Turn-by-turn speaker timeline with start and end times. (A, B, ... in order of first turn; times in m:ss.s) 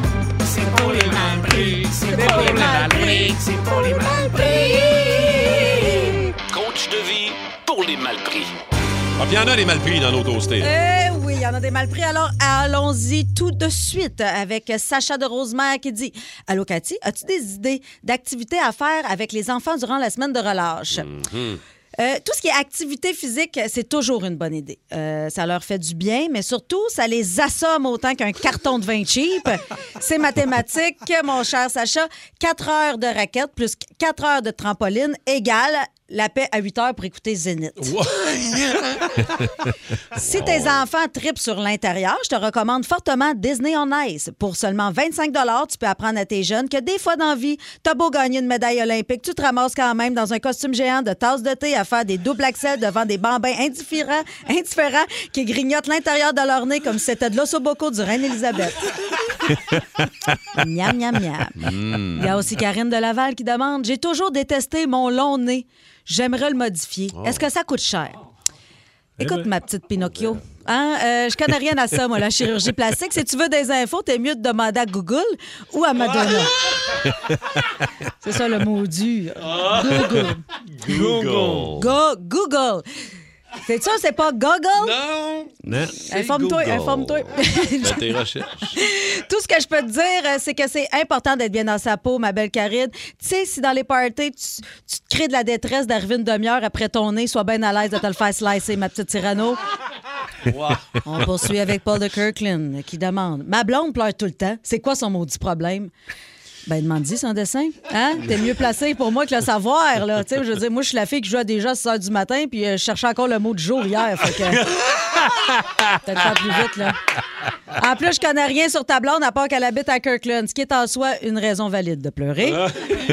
0:00.6-0:06.3 A
0:02.2-0:02.8 B
0:06.5-0:08.5 C
0:09.2-0:10.7 D
0:10.6-0:21.1 A
0:20.9-0:21.6 D
0:22.0-0:38.0 A
0:37.8-0:39.2 D
0:40.2-0:58.9 A
0:40.2-0:40.8 D
1:00.6-1:01.6 A
1:01.6-1:02.3 D
1:02.1-1:08.2 A
1:07.1-1:07.4 D
1:09.2-1:09.4 B
1:09.2-1:16.5 A
1:18.2-1:20.4 A
1:19.5-1:20.2 D
1:20.8-1:21.7 B
1:20.8-1:21.9 D
1:21.8-1:22.8 A
1:23.6-1:25.0 A
1:24.8-1:25.5 D
1:25.6-1:25.9 B
1:26.0-1:28.1 A
1:26.1-1:28.8 D
1:28.7-1:39.6 A
1:40.5-1:40.8 D
1:41.0-1:45.9 A
1:46.6-1:54.7 A
1:56.0-1:57.0 A
1:57.7-2:02.7 A